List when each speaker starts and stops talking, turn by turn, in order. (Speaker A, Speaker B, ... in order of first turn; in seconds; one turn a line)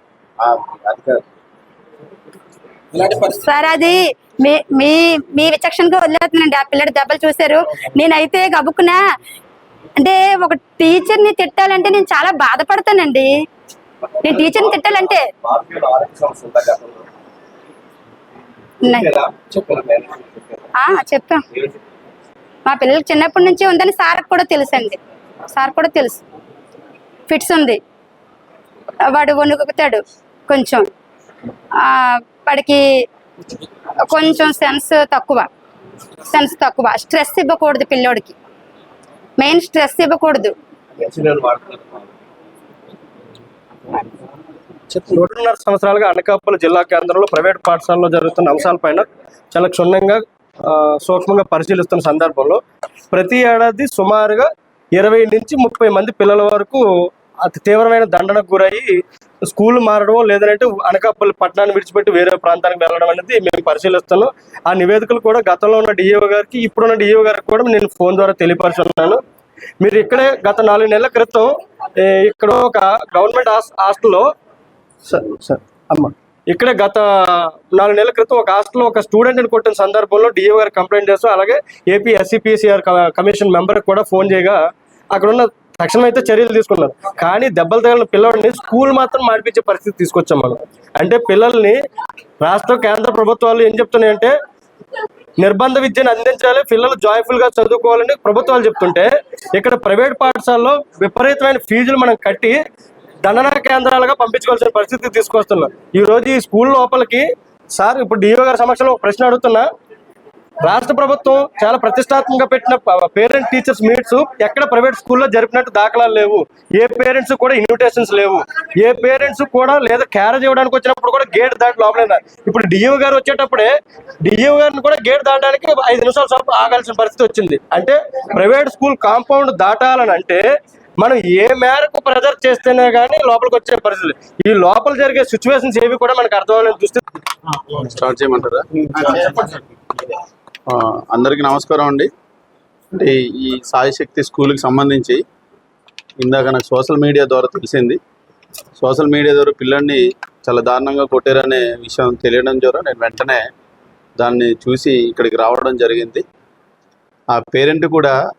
Speaker A: 0.4-1.2
Speaker B: 3.1-9.0
Speaker B: 10.0-13.3
Speaker A: 14.2-17.1
Speaker B: 14.2-15.3
Speaker B: 18.8-19.1
Speaker A: 18.9-20.7
Speaker B: 20.8-21.4
Speaker B: 22.7-26.2
Speaker B: 27.3-27.8
Speaker B: 29.1-30.9
Speaker B: 31.8-32.9
Speaker B: 34.1-35.5
Speaker B: 36.3-38.4
Speaker B: 39.4-40.5
Speaker A: 41.0-42.1
Speaker C: 44.9-52.6
Speaker C: 53.1-56.8
Speaker C: 57.5-69.2
Speaker C: 69.8-74.3
Speaker C: 75.1-84.6
Speaker C: 85.1-91.8
Speaker C: 92.4-94.3
Speaker C: 95.4-102.6
Speaker C: 103.2-107.2
Speaker C: 107.8-109.6
Speaker C: 110.6-123.7
Speaker C: 124.3-130.4
Speaker C: 131.0-137.0
Speaker D: 137.7-139.3
Speaker A: 138.9-139.6
Speaker D: 140.7-142.1
Speaker D: 142.9-145.2
Speaker D: 146.2-148.0
Speaker D: 148.8-153.4
Speaker D: 154.2-156.2
Speaker D: 157.3-158.2